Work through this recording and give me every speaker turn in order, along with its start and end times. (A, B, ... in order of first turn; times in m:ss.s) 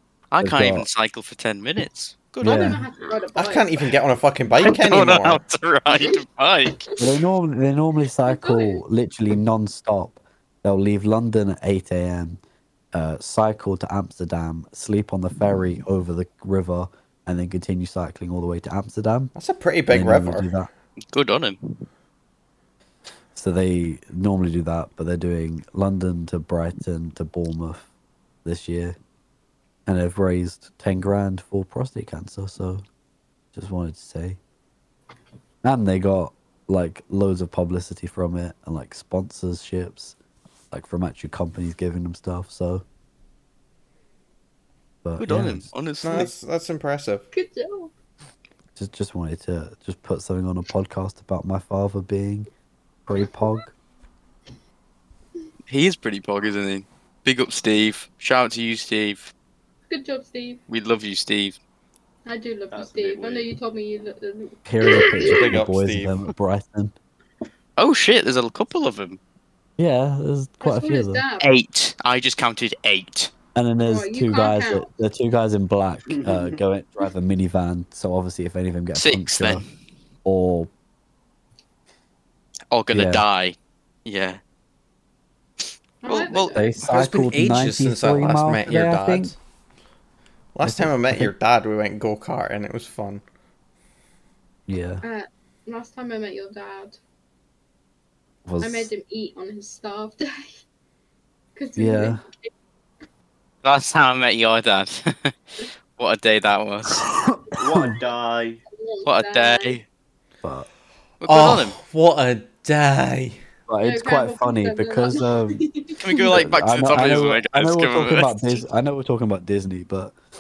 0:00.3-0:02.8 A
0:00.4-0:00.9 B
0:02.4-0:02.8 B
0:02.4-0:03.8 C
0:02.4-0:02.8 D
0:03.4-0:05.4 D
0:04.6-0:06.8 A
0:07.0-0:12.4 B
0:08.2-0:08.8 C
0:12.9-0:19.3 B
0:19.3-0:20.5 D
0:19.9-0:20.7 B
0:21.1-0:21.8 A
0:23.3-0:27.9 B
0:28.4-0:29.0 B
0:29.8-0:32.8 B
0:33.5-0:34.4 B
0:35.6-0:40.1 B
0:40.7-0:42.8 B
0:45.0-0:45.7 B
0:45.2-0:46.3 A
0:46.0-0:47.3 D
0:47.3-0:47.9 C
0:48.8-0:52.5 B
0:53.0-0:53.7 B
0:55.7-0:59.3 A
0:59.9-1:00.6 C
1:00.7-1:01.6 A
1:02.2-1:05.5 C
1:02.7-1:03.5 E
1:04.6-1:06.9 B
1:05.2-1:06.1 D
1:07.8-1:09.2 A
1:09.8-1:11.2 B
1:10.6-1:11.5 C
1:11.4-1:13.3 A
1:13.5-1:19.6 B
1:13.8-1:14.9 C
1:16.1-1:16.5 E
1:18.9-1:19.6 A
1:20.2-1:20.7 B
1:22.7-1:24.4 A
1:22.9-1:23.2 B
1:25.6-1:26.7 A
1:26.0-1:26.7 C
1:26.5-1:29.3 B
1:26.8-1:29.3 D
1:30.5-1:33.2 D
1:30.6-1:31.3 B
1:34.7-1:35.0 B
1:35.0-1:37.0 C
1:38.4-1:38.9 B
1:38.6-1:40.6 C
1:41.6-1:42.5 C
1:41.8-1:42.2 B
1:43.6-1:47.1 A
1:47.1-1:48.0 B
1:47.6-1:48.6 E
1:48.7-1:49.7 C
1:49.0-1:49.8 A
1:51.2-1:51.8 A
1:51.3-1:53.4 D
1:53.7-1:55.6 B
1:53.8-1:56.3 C
1:56.0-1:58.6 A
1:56.3-2:00.2 B